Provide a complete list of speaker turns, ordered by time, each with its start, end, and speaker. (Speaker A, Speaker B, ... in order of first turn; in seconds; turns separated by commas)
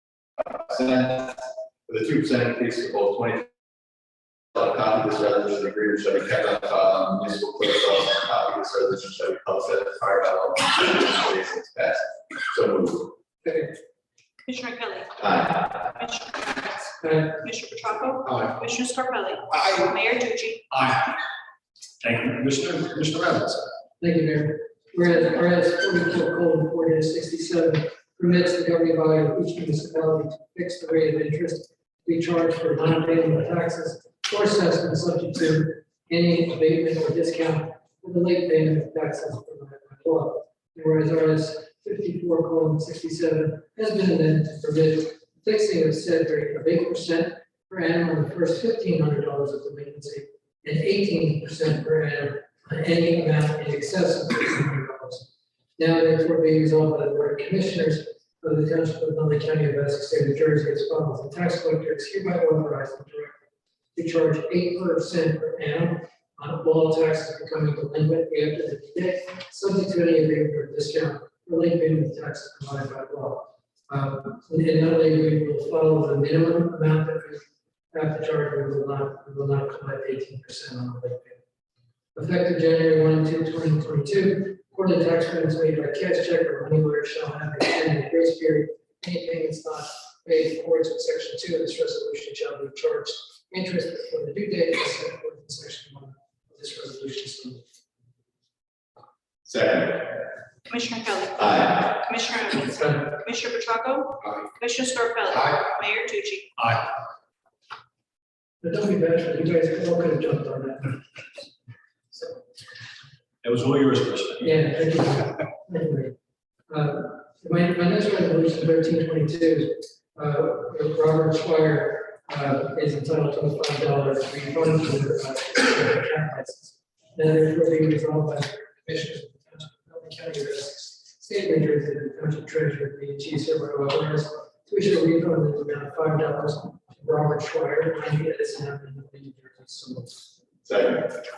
Speaker A: 0.4-3.5, Speaker A: 4.5-13.1, Speaker B: 13.4-13.8, Speaker C: 14.4-15.2, Speaker A: 15.2-15.9, Speaker C: 15.9-20.6, Speaker B: 17.0-17.4, Speaker D: 18.2-18.6, Speaker D: 19.5-19.8, Speaker D: 20.7-21.2, Speaker D: 22.0-23.7, Speaker B: 24.0-63.4, Speaker B: 63.9-81.4, Speaker B: 82.1-97.6, Speaker A: 99.5-100.3, Speaker C: 100.7-106.5, Speaker A: 101.4-101.9, Speaker B: 102.7-103.0, Speaker D: 106.6-106.9, Speaker B: 108.6-111.5, Speaker B: 112.1-112.4, Speaker D: 113.4-114.6, Speaker B: 114.4-116.1, Speaker B: 116.7-140.3, Speaker A: 140.7-141.2